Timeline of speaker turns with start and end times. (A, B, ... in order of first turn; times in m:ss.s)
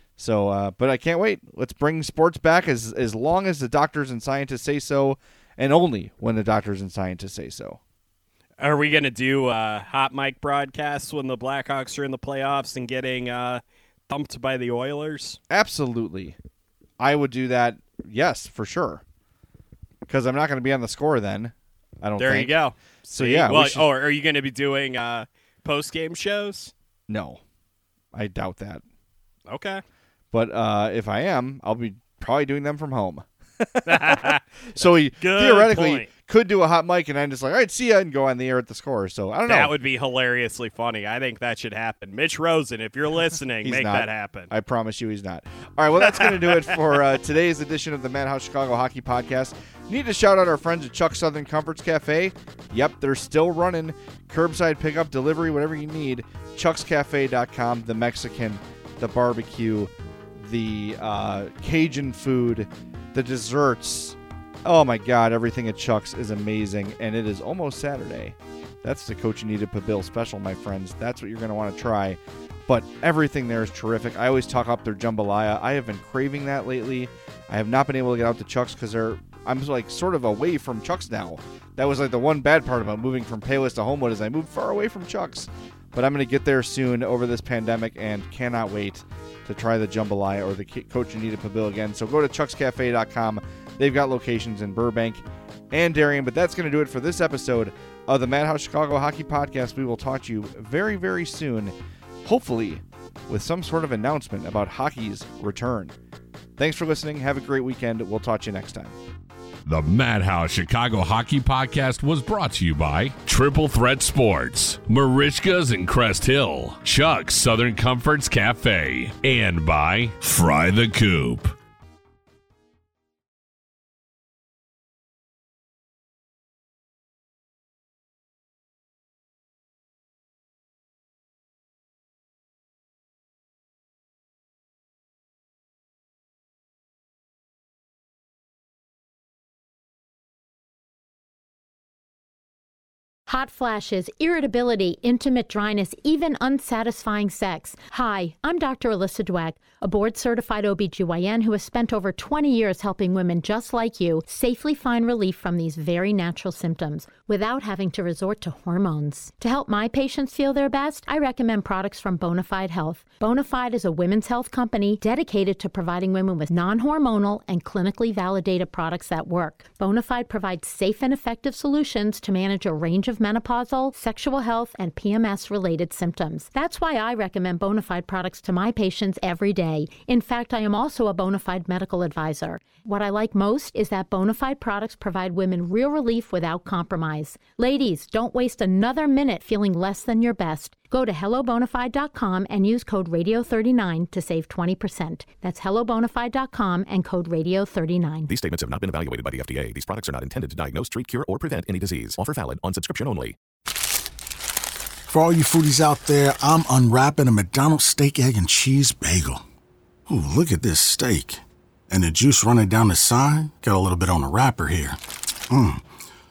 0:00.2-0:07.8 A
0:08.6-0:15.4 B
0:15.5-0:16.4 A
0:17.0-0:19.0 A
0:20.1-0:22.6 A
0:22.2-0:26.7 B
0:23.1-0:23.9 A
0:27.1-0:27.4 A
0:28.1-0:28.8 A
0:29.5-0:29.8 B
0:30.3-0:39.7 A
0:33.9-0:36.1 B
0:39.4-0:44.5 B
0:43.6-1:46.0 A
0:46.0-0:47.0 B
1:46.6-1:49.0 A
1:49.7-2:01.6 C
2:23.3-3:18.3 D
3:18.3-3:23.4 E
3:25.1-3:29.4 F
3:30.1-3:35.0 F
3:35.5-3:35.8 F